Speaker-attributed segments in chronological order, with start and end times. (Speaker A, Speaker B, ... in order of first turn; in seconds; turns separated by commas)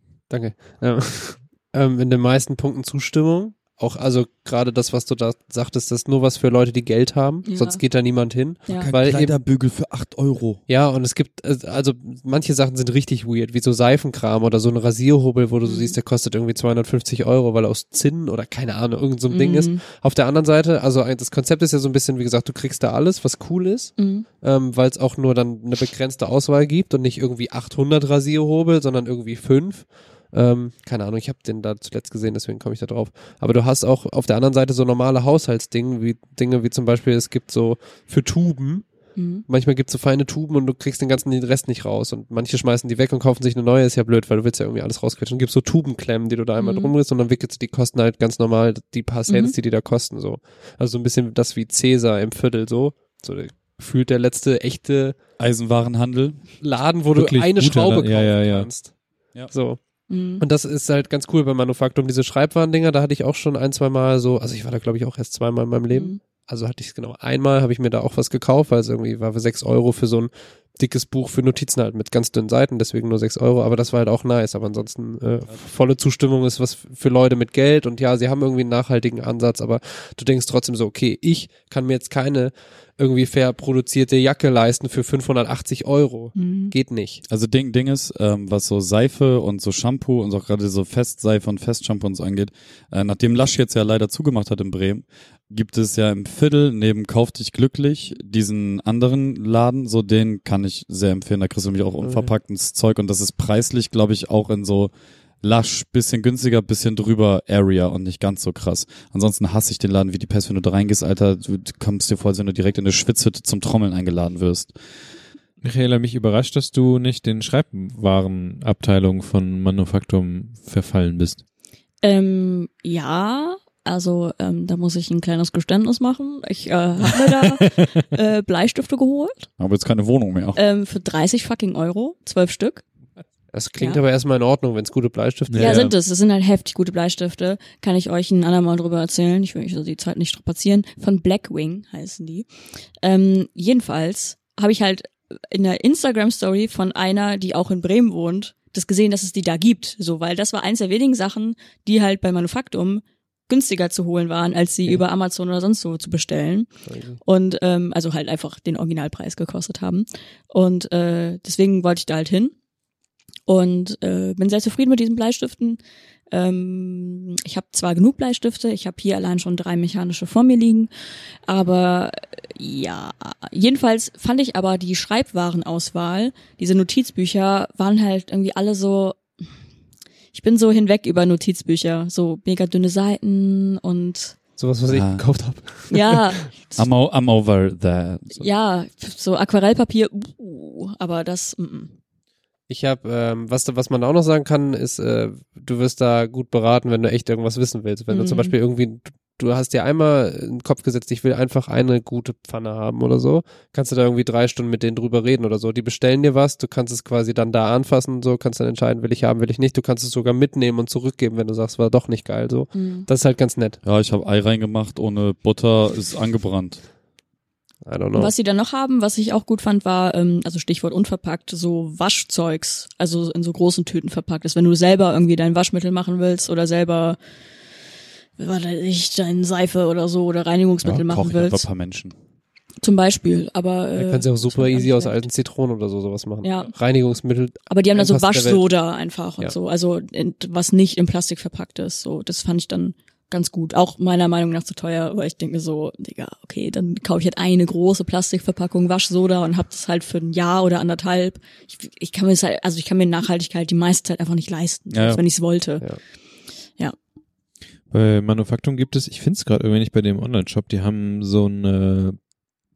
Speaker A: 0.3-9.4, Speaker B: 7.4-7.8, Speaker C: 8.7-10.6, Speaker A: 10.7-38.9, Speaker B: 15.6-15.9, Speaker B: 19.3-19.8, Speaker B: 24.0-24.2, Speaker B: 39.1-39.4, Speaker A: 39.5-55.1, Speaker B: 46.6-46.9, Speaker B: 49.3-49.5, Speaker C: 55.4-56.4, Speaker A: 56.6-58.9, Speaker D: 57.1-58.7, Speaker A: 59.5-59.8, Speaker B: 60.1-60.4, Speaker A: 60.4-87.2, Speaker B: 65.9-66.2, Speaker B: 86.3-86.7, Speaker C: 87.3-104.9, Speaker A: 102.0-102.3, Speaker C: 105.4-114.7, Speaker D: 115.6-121.4, Speaker B: 122.0-129.5, Speaker D: 127.4-127.9, Speaker C: 129.6-130.6, Speaker B: 130.6-132.8, Speaker A: 133.5-135.9, Speaker D: 135.5-135.9, Speaker B: 135.6-142.5, Speaker B: 143.0-156.7, Speaker A: 156.9-157.2, Speaker B: 157.2-162.5, Speaker B: 163.5-165.8, Speaker B: 166.3-170.9, Speaker B: 171.5-179.2, Speaker B: 180.3-184.3, Speaker A: 184.6-186.3, Speaker C: 184.9-185.2, Speaker B: 185.9-186.8, Speaker C: 186.8-188.4, Speaker B: 188.4-191.9, Speaker A: 192.7-213.8, Speaker B: 198.1-198.5, Speaker B: 212.7-213.1, Speaker C: 213.8-216.8, Speaker A: 217.8-218.3, Speaker B: 218.1-227.2, Speaker B: 228.4-231.6, Speaker C: 230.8-232.1, Speaker B: 232.8-235.3, Speaker A: 233.9-238.6, Speaker B: 236.4-236.7, Speaker B: 237.7-255.8, Speaker C: 254.9-255.2, Speaker D: 257.9-262.1